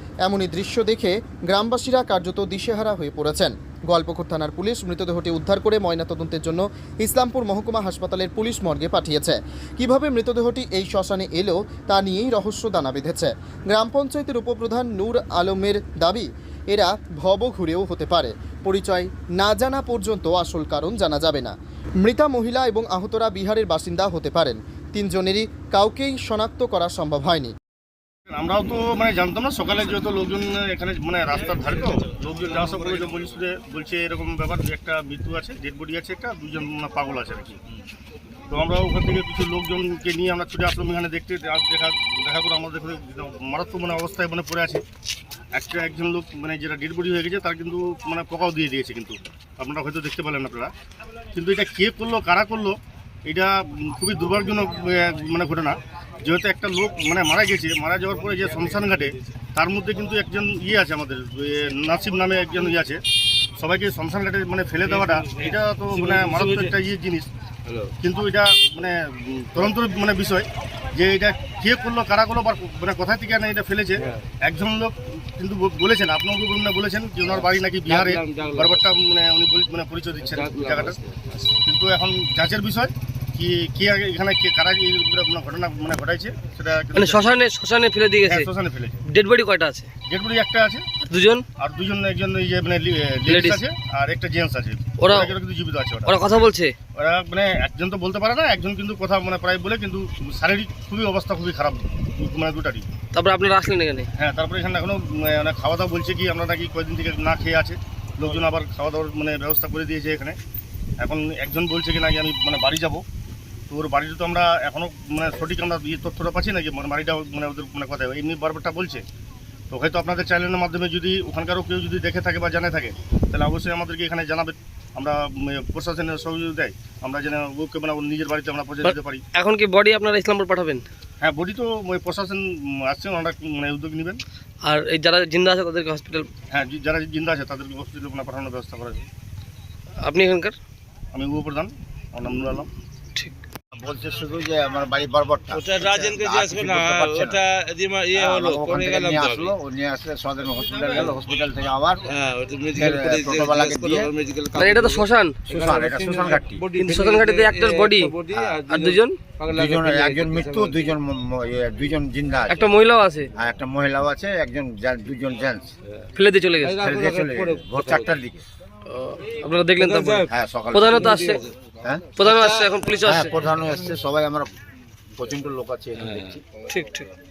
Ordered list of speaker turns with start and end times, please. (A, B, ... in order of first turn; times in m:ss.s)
0:00.2-0:27.5 A
0:28.3-0:37.6 B
0:38.5-0:44.8 B
0:45.5-0:50.7 B
0:51.3-1:03.0 B
1:03.6-1:07.3 B
1:04.8-1:06.8 C
1:07.7-1:07.9 C
1:08.0-1:21.0 B
1:14.0-1:14.2 C
1:17.3-1:18.8 C
1:20.2-1:21.5 C
1:21.6-1:27.2 B
1:26.9-1:28.5 D
1:28.2-1:29.0 B
1:29.1-1:29.9 D
1:30.1-1:30.9 B
1:31.1-1:31.4 D
1:31.6-1:36.4 B
1:33.3-1:33.6 D
1:35.0-1:35.3 D
1:36.1-1:36.7 D
1:37.0-1:42.9 B
1:43.1-1:44.1 D
1:44.2-1:50.4 B
1:51.0-1:53.0 B
1:53.7-1:59.0 B
1:59.7-2:09.2 B
2:08.8-2:10.8 D
2:11.2-2:14.2 B
2:14.6-2:16.3 D
2:16.5-2:19.1 B
2:20.0-2:20.5 D
2:21.1-2:22.7 B
2:23.7-2:27.4 E
2:25.5-2:29.5 C
2:28.1-2:32.0 E
2:30.5-2:31.2 B
2:32.1-2:40.9 C
2:32.7-2:34.1 E
2:34.5-2:35.4 D
2:35.5-2:36.7 E
2:36.8-2:38.1 D
2:38.3-2:38.6 E
2:38.7-2:39.2 D
2:39.5-2:42.7 E
2:42.5-2:43.3 D
2:43.4-2:45.7 E
2:46.2-2:46.8 D
2:46.6-2:48.2 C
2:46.8-2:48.4 E
2:48.9-2:51.4 D
2:49.8-2:50.3 C
2:50.3-2:51.2 E
2:50.9-2:51.5 C
2:51.8-2:52.1 E
2:52.2-2:52.7 C
2:52.2-2:53.3 D
2:53.0-2:54.5 E
2:55.2-2:56.4 E
2:56.0-2:56.4 C
2:56.7-2:57.1 D